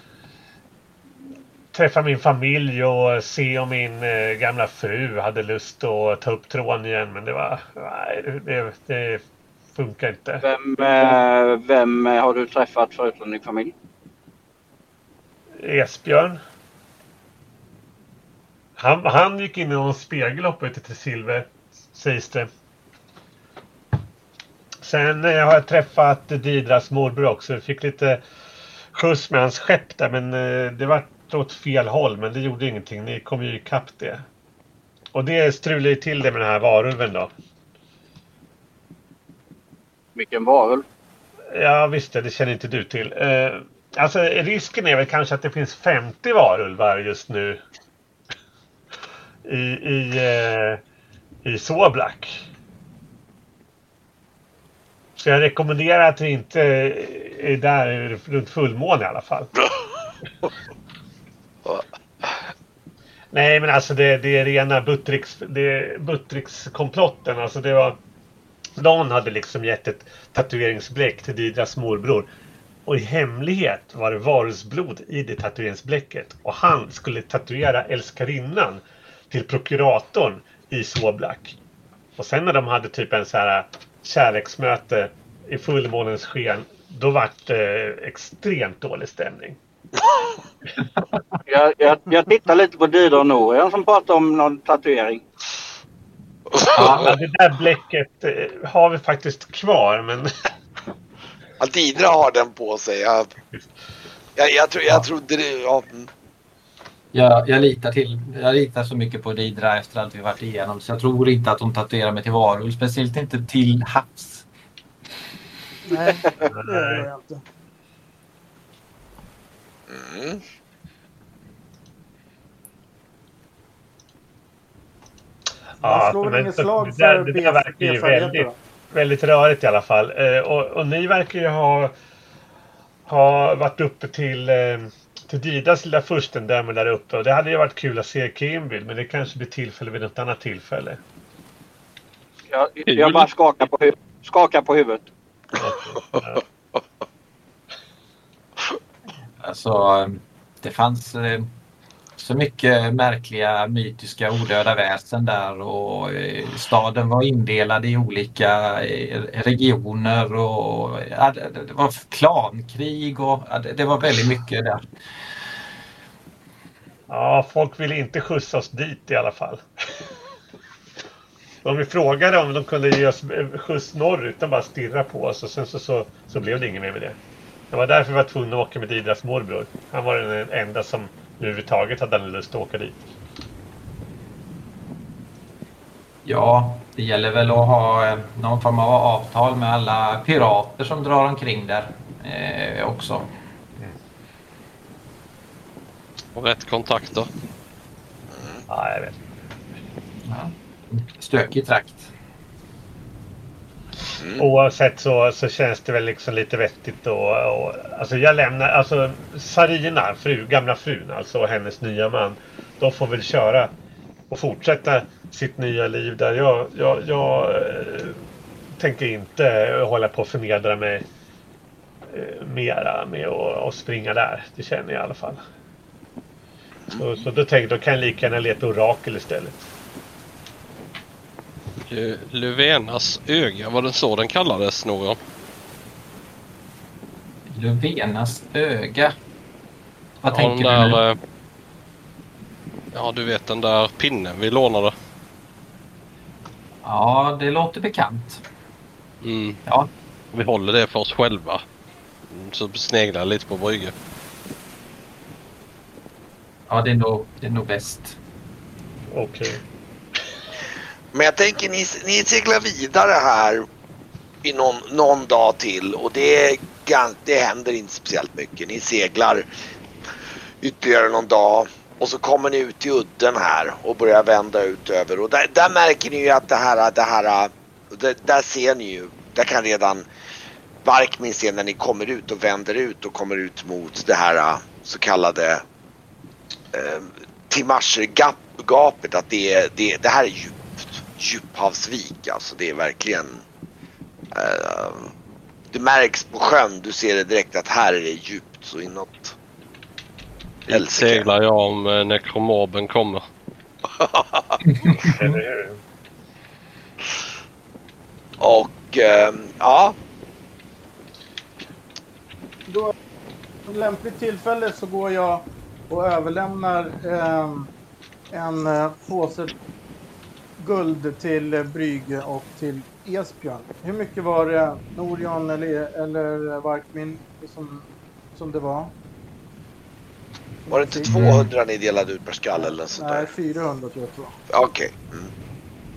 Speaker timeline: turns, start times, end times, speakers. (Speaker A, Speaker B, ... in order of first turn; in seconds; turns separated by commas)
Speaker A: 1.7-10.4, Speaker B: 10.4-13.7, Speaker A: 15.6-16.4, Speaker A: 18.8-22.5, Speaker A: 24.8-28.2, Speaker A: 28.9-34.2, Speaker A: 35.1-37.3, Speaker B: 40.1-40.8, Speaker A: 41.5-47.6, Speaker A: 49.4-50.8, Speaker A: 51.4-52.4, Speaker A: 55.1-59.5, Speaker C: 61.6-62.4, Speaker A: 63.3-68.0, Speaker A: 68.8-72.3, Speaker A: 72.8-81.5, Speaker A: 82.2-89.6, Speaker B: 91.5-95.2, Speaker C: 96.5-97.1, Speaker A: 96.7-100.3, Speaker D: 96.7-97.1, Speaker C: 101.6-103.3, Speaker C: 104.3-106.1, Speaker D: 107.1-114.5, Speaker E: 115.9-117.4, Speaker B: 116.1-116.4, Speaker A: 116.5-117.1, Speaker C: 119.9-120.4, Speaker E: 125.8-128.5, Speaker A: 125.8-131.9, Speaker A: 133.1-141.0, Speaker B: 142.5-145.1, Speaker F: 142.9-143.3, Speaker A: 145.6-146.4, Speaker D: 149.4-151.5, Speaker D: 152.2-164.9, Speaker A: 167.1-169.6, Speaker A: 171.6-177.2, Speaker A: 177.7-183.0, Speaker D: 186.2-193.3, Speaker F: 196.3-197.3, Speaker C: 198.3-198.6, Speaker A: 198.7-199.2, Speaker D: 200.2-202.1, Speaker C: 204.2-204.5, Speaker A: 204.3-213.7, Speaker A: 214.3-218.2, Speaker A: 218.8-221.0, Speaker A: 222.1-225.4, Speaker A: 226.9-229.6, Speaker F: 231.9-235.2, Speaker D: 237.5-239.2, Speaker D: 240.2-241.0, Speaker F: 240.3-241.2, Speaker F: 242.9-244.9, Speaker D: 246.8-248.4, Speaker F: 249.2-249.6, Speaker F: 250.3-251.6, Speaker F: 252.3-253.9, Speaker D: 256.7-258.1, Speaker A: 259.1-259.6, Speaker C: 261.1-263.6, Speaker C: 264.4-269.4, Speaker C: 270.6-280.1, Speaker C: 280.8-285.6, Speaker C: 286.7-293.4, Speaker C: 294.3-295.1, Speaker C: 295.7-299.3, Speaker C: 300.7-301.3, Speaker F: 300.7-303.2, Speaker C: 303.9-304.6, Speaker D: 304.7-305.4, Speaker A: 305.0-305.8, Speaker C: 308.4-309.9, Speaker E: 312.7-312.9, Speaker E: 313.7-317.7, Speaker E: 318.3-319.5, Speaker E: 320.6-328.9, Speaker E: 330.7-331.2, Speaker C: 330.7-333.3, Speaker D: 331.1-331.5, Speaker E: 332.6-334.3, Speaker C: 334.5-335.3